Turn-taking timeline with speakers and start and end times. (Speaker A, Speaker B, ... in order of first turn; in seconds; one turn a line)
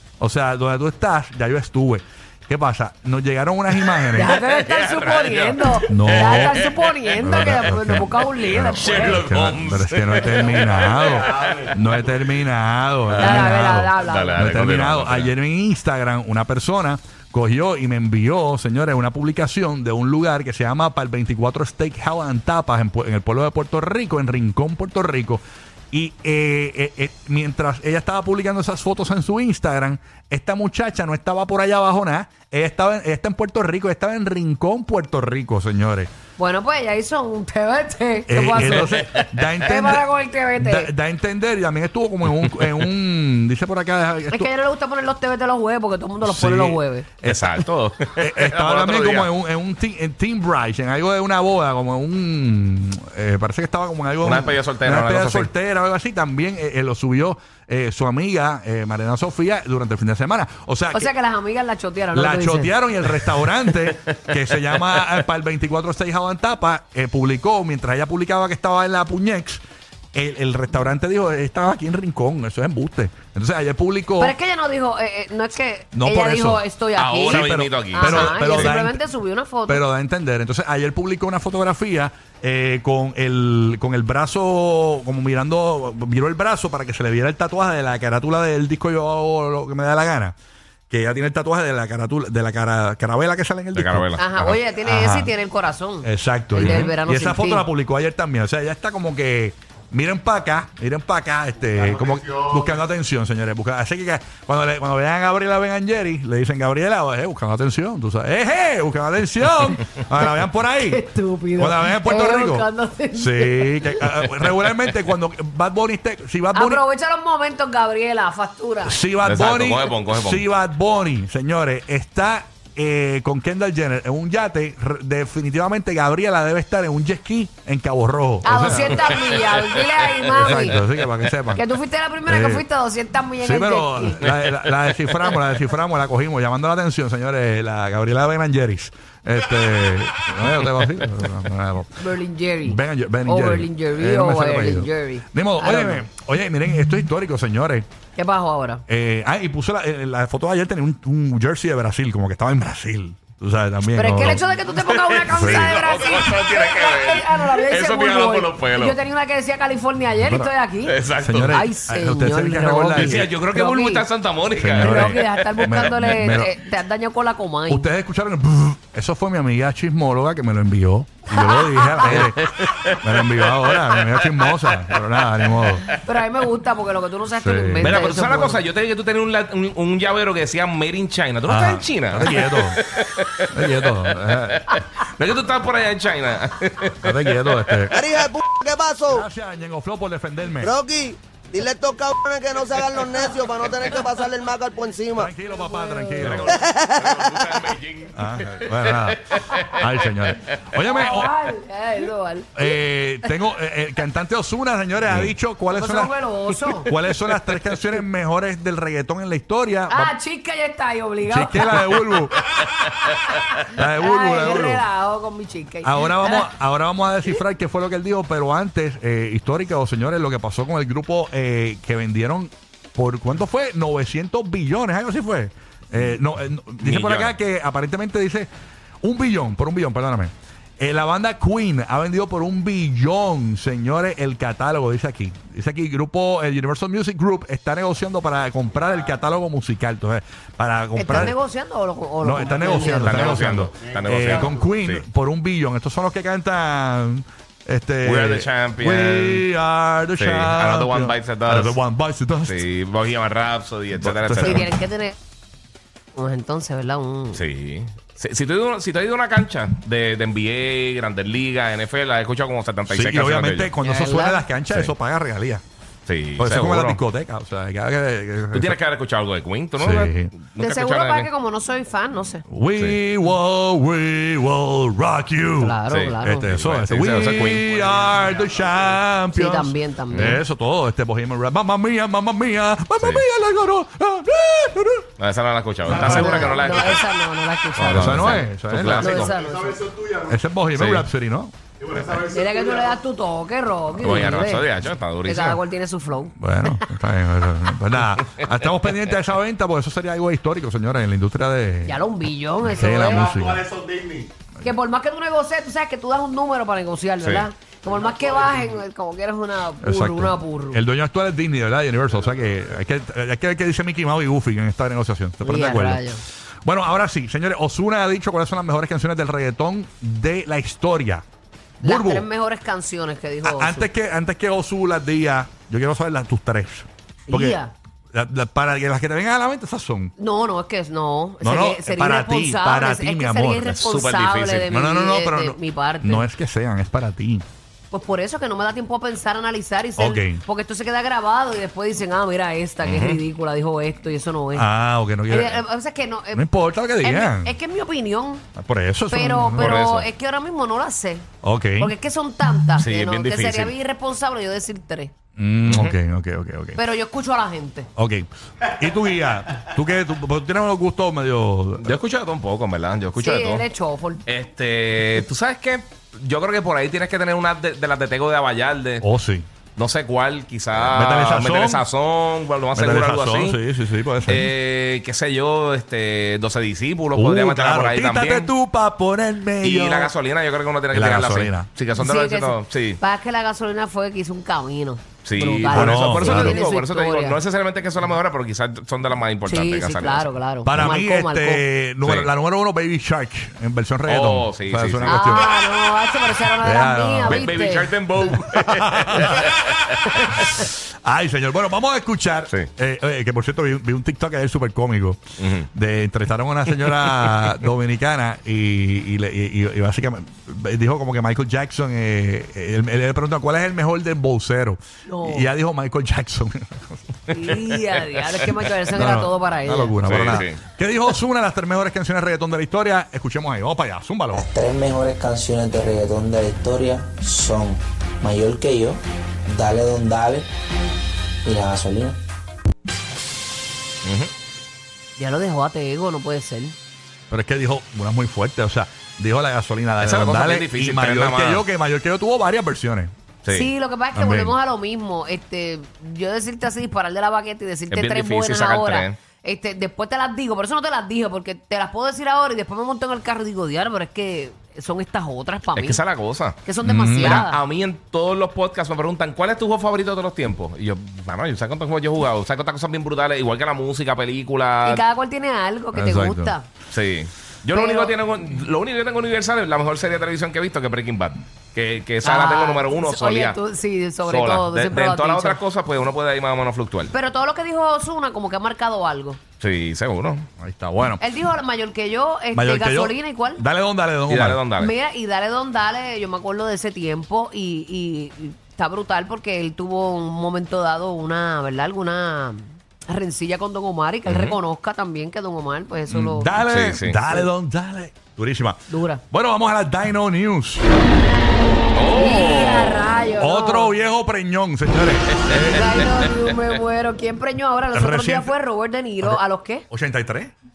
Speaker A: 0.2-4.4
Speaker B: 3.9-7.1
Speaker C: 4.1-9.2
Speaker A: 5.9-36.1
Speaker B: 8.4-12.2
Speaker B: 13.1-15.3
Speaker C: 13.2-14.4
Speaker C: 36.4-38.9
Speaker A: 38.3-40.0
Speaker B: 38.6-39.4
Speaker C: 39.6-40.9
Speaker A: 40.6-44.5
Speaker B: 42.3-42.9
Speaker C: 44.3-47.1
Speaker A: 46.2-47.6
Speaker B: 47.2-49.3
Speaker A: 48.2-61.1
Speaker B: 54.2-55.5
Speaker C: 60.9-62.7
Speaker A: 62.1-69.6
Speaker A: 70.1-74.3
Speaker C: 74.2-79.8
Speaker A: 75.9-76.6
Speaker B: 77.0-78.7
Speaker A: 77.3-79.0
Speaker A: 79.7-90.3
Speaker A: 90.9-95.3
Speaker B: 93.7-94.3
Speaker C: 94.2-97.7
Speaker A: 96.0-116.8
Speaker B: 96.6-96.9
Speaker C: 110.8-114.2
Speaker C: 116.5-119.0
Speaker A: 118.8-129.2
Speaker B: 119.2-120.4
Speaker C: 128.4-130.8
Speaker B: 128.6-129.7
Speaker A: 130.3-131.6
Speaker C: 131.5-134.2
Speaker A: 132.2-132.7
Speaker A: 133.4-141.9
Speaker B: 134.2-135.4
Speaker C: 142.0-146.1
Speaker A: 142.6-147.8
Speaker C: 148.2-148.8
Speaker A: 148.9-154.4
Speaker C: 153.9-164.0
Speaker B: 154.7-159.0
Speaker A: 155.3-155.8
Speaker A: 160.2-160.5
Speaker B: 160.8-161.7
Speaker A: 161.2-163.3
Speaker B: 162.9-165.8
Speaker A: 164.6-166.5
Speaker C: 164.7-167.9
Speaker A: 167.7-175.8
Speaker C: 171.3-172.1
Speaker B: 172.0-176.0
Speaker C: 176.0-178.6
Speaker A: 177.3-178.0
Speaker B: 177.8-188.0
Speaker A: 181.4-182.8
Speaker A: 183.5-184.6
Speaker A: 187.0-188.0
Speaker D: 187.9-189.2
Speaker A: 189.1-190.7
Speaker D: 190.6-195.3
Speaker A: 195.2-196.5
Speaker C: 195.5-196.3
Speaker B: 196.2-200.5
Speaker D: 196.7-197.2
Speaker A: 198.1-201.3
Speaker C: 200.8-202.7
Speaker A: 202.5-206.1
Speaker C: 205.7-206.9
Speaker A: 206.7-210.1
Speaker B: 207.0-207.5
Speaker C: 209.9-212.1
Speaker A: 211.2-212.4
Speaker C: 213.4-216.5
Speaker A: 213.7-214.8
Speaker A: 215.8-228.5
Speaker B: 226.8-227.3
Speaker A: 229.0-241.3
Speaker C: 240.9-243.5
Speaker A: 242.2-252.6
Speaker B: 242.8-245.0
Speaker B: 248.0-249.5
Speaker B: 250.2-251.8
Speaker B: 252.4-254.7
Speaker A: 254.0-254.7
Speaker C: 254.4-255.1
Speaker C: 256.1-257.4
Speaker B: 257.3-263.7
Speaker A: 262.9-265.6
Speaker C: 263.8-264.4
Speaker B: 266.1-267.0
Speaker A: 266.4-268.8
Speaker B: 268.5-271.3
Speaker A: 269.8-270.3
Speaker C: 270.6-272.4
Speaker A: 272.5-285.1
Speaker C: 275.6-276.5
Speaker B: 275.9-278.4
Speaker C: 279.3-280.4
Speaker B: 280.1-280.4
Speaker B: 283.0-283.2
Speaker B: 285.2-287.0
Speaker A: 285.9-286.6
Speaker C: 285.9-288.5
Speaker B: 287.8-289.4
Speaker A: 287.8-289.3
Speaker C: 289.0-289.8
Speaker A: 290.2-292.3
Speaker B: 290.7-291.1
Speaker C: 292.2-294.7
Speaker A: 294.0-294.4
Speaker B: 294.0-295.6
Speaker C: 295.2-296.8
Speaker A: 296.4-302.0
Speaker C: 301.9-303.5
Speaker A: 302.6-303.7
Speaker C: 304.6-310.8
Speaker B: 307.2-307.5
Speaker A: 309.8-316.1
Speaker C: 315.4-316.2
Speaker A: 316.6-321.2
Speaker C: 321.8-323.9
Speaker A: 321.8-322.3
Speaker A: 323.4-327.6
Speaker C: 327.3-327.7
Speaker A: 328.1-330.1
Speaker C: 330.2-336.3
Speaker A: 331.4-333.8
Speaker B: 333.6-334.6
Speaker A: 334.6-337.4
Speaker C: 337.9-344.7
Speaker A: 340.0-340.4
Speaker B: 342.8-343.2
Speaker A: 344.5-345.6
Speaker C: 345.3-346.4
Speaker A: 346.3-347.5
Speaker C: 347.0-348.4
Speaker A: 348.6-349.8
Speaker C: 349.1-355.1
Speaker B: 349.6-350.1
Speaker A: 351.4-351.9
Speaker B: 352.8-353.7
Speaker A: 355.4-356.8
Speaker B: 355.7-355.9
Speaker C: 356.8-357.9
Speaker A: 357.9-362.0
Speaker B: 361.8-363.7
Speaker C: 363.1-364.2
Speaker B: 364.2-369.1
Speaker A: 369.0-369.4
Speaker B: 369.8-373.6
Speaker A: 370.7-371.9
Speaker A: 372.7-374.5
Speaker B: 374.2-378.5
Speaker A: 377.1-380.1
Speaker B: 379.6-383.0
Speaker A: 380.9-381.7
Speaker C: 381.9-387.4
Speaker B: 385.2-390.3
Speaker A: 385.7-386.6
Speaker C: 389.4-391.7
Speaker A: 390.6-395.5
Speaker B: 392.0-392.3
Speaker B: 394.1-395.4
Speaker C: 395.0-397.9
Speaker A: 396.6-397.5
Speaker B: 397.2-400.6
Speaker A: 398.3-399.4
Speaker A: 400.4-405.2
Speaker B: 405.4-405.7
Speaker A: 405.7-417.6
Speaker B: 406.9-407.4
Speaker C: 415.1-415.5
Speaker C: 417.3-420.3
Speaker A: 418.9-424.4
Speaker B: 420.1-420.6
Speaker E: 424.3-430.5
Speaker E: 431.4-432.2
Speaker B: 434.0-434.3
Speaker C: 435.2-436.8
Speaker A: 437.3-443.1
Speaker B: 440.0-441.6
Speaker B: 443.4-443.7
Speaker C: 443.5-456.0
Speaker A: 444.1-444.6
Speaker B: 447.9-449.2
Speaker B: 455.7-465.0
Speaker C: 456.6-457.6
Speaker A: 456.8-457.4
Speaker C: 464.8-466.7
Speaker A: 465.9-466.5
Speaker B: 466.9-473.6
Speaker C: 467.7-468.1
Speaker C: 472.2-475.6
Speaker B: 474.2-477.1
Speaker C: 477.1-479.4
Speaker B: 479.6-480.4
Speaker A: 480.6-481.2
Speaker C: 481.2-483.6
Speaker A: 482.5-484.6
Speaker B: 484.3-484.9
Speaker C: 484.8-496.6
Speaker B: 494.3-494.6
Speaker A: 496.1-498.8
Speaker B: 496.7-497.2
Speaker C: 498.9-499.2
Speaker A: 499.3-500.9
Speaker B: 501.9-503.1
Speaker C: 502.1-503.9
Speaker A: 503.4-506.1
Speaker C: 505.6-509.9
Speaker A: 507.9-508.5
Speaker A: 509.2-510.5